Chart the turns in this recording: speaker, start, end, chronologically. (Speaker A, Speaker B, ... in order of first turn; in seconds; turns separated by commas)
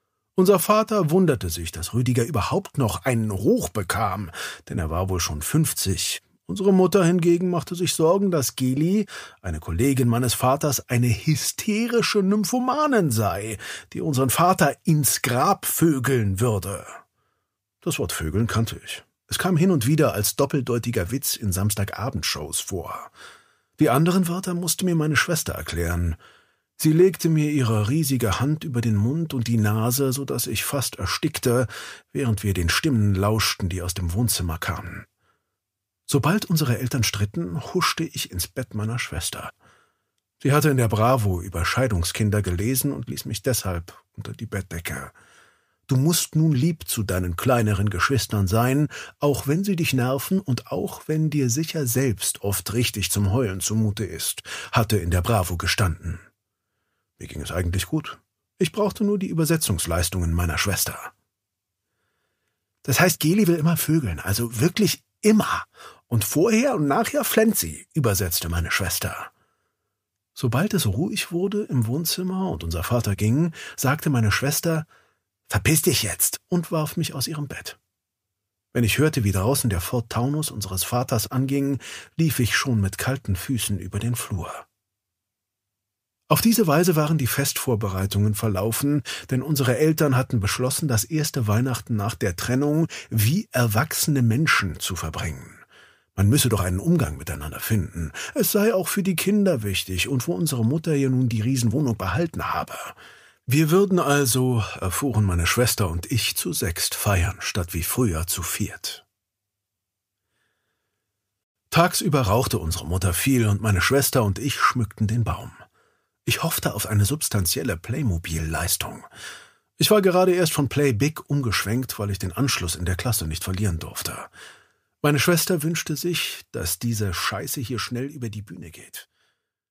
Speaker A: 0.3-17.0, Speaker A: 17.8-23.1, Speaker A: 23.8-26.2, Speaker A: 26.8-35.1, Speaker A: 36.1-39.5, Speaker A: 40.4-45.1, Speaker A: 45.9-56.2, Speaker A: 57.2-61.1, Speaker A: 62.8-69.3, Speaker A: 70.3-74.9, Speaker A: 75.5-77.8, Speaker A: 78.7-84.7, Speaker A: 86.3-95.6, Speaker A: 96.2-109.0, Speaker A: 111.7-115.6, Speaker A: 116.2-119.1, Speaker A: 119.8-124.3, Speaker A: 125.0-129.1